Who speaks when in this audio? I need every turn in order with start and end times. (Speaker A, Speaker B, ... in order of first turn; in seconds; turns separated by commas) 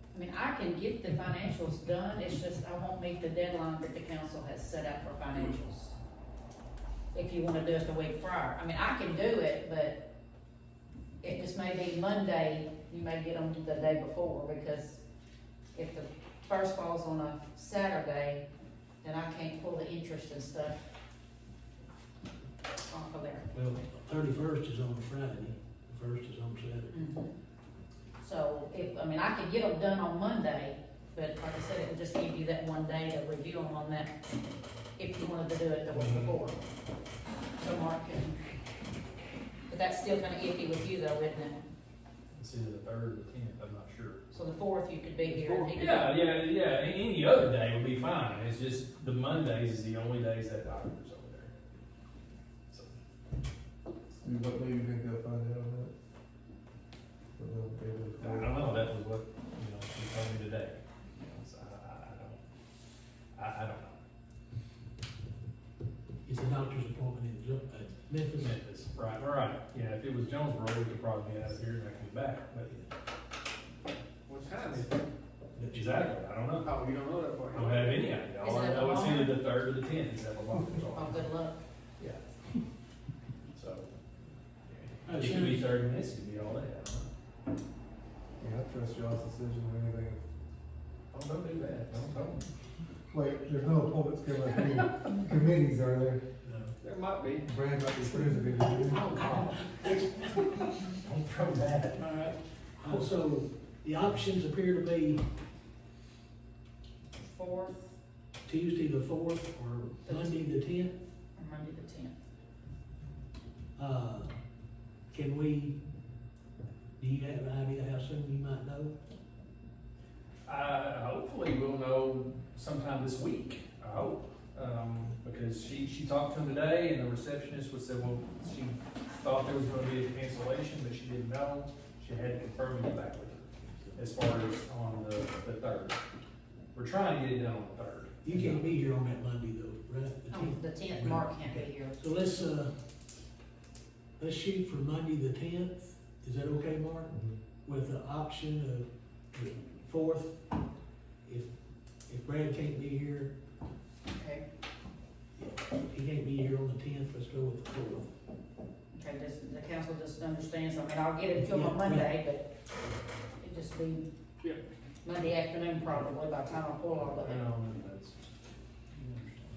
Speaker A: 0.1-5.9, Speaker A: 7.1-10.0, Speaker A: 11.2-15.0, Speaker A: 15.7-18.4, Speaker A: 19.0-20.8, Speaker A: 22.9-23.4, Speaker B: 23.5-27.1, Speaker A: 26.9-27.3, Speaker A: 28.2-34.1, Speaker A: 35.0-36.6, Speaker C: 35.9-36.3, Speaker A: 37.6-38.3, Speaker A: 39.7-41.6, Speaker C: 42.3-44.2, Speaker A: 44.3-46.1, Speaker D: 45.3-45.6, Speaker C: 45.7-51.5, Speaker C: 52.7-52.9, Speaker E: 54.1-55.9, Speaker E: 57.4-58.6, Speaker C: 58.2-62.4, Speaker C: 63.3-64.0, Speaker B: 66.2-68.6, Speaker C: 68.3-72.7, Speaker D: 74.3-74.9, Speaker B: 75.5-76.0, Speaker C: 75.7-76.8, Speaker D: 76.6-78.0, Speaker C: 77.5-81.3, Speaker A: 78.4-79.4, Speaker A: 80.9-81.6, Speaker C: 82.0-82.2, Speaker C: 83.5-83.9, Speaker C: 84.7-87.1, Speaker B: 85.0-85.7, Speaker E: 88.4-90.2, Speaker C: 91.1-92.4, Speaker E: 93.1-96.2, Speaker B: 96.4-96.7, Speaker D: 96.8-97.5, Speaker E: 97.4-99.2, Speaker C: 98.9-102.1, Speaker B: 102.8-105.2, Speaker A: 107.2-108.0, Speaker B: 108.4-110.9, Speaker A: 110.0-110.4, Speaker A: 111.3-112.1, Speaker B: 113.8-114.3, Speaker B: 115.1-115.8, Speaker B: 117.0-119.0, Speaker C: 120.5-136.0, Speaker C: 136.7-138.7, Speaker B: 138.2-142.7, Speaker A: 140.3-142.0, Speaker B: 144.2-150.4, Speaker B: 151.2-151.5, Speaker B: 152.1-153.3, Speaker A: 154.1-154.4, Speaker B: 155.4-158.1, Speaker A: 158.9-162.5, Speaker B: 161.3-162.1, Speaker A: 163.4-164.0, Speaker A: 165.0-167.4, Speaker C: 167.2-168.2, Speaker C: 169.0-169.4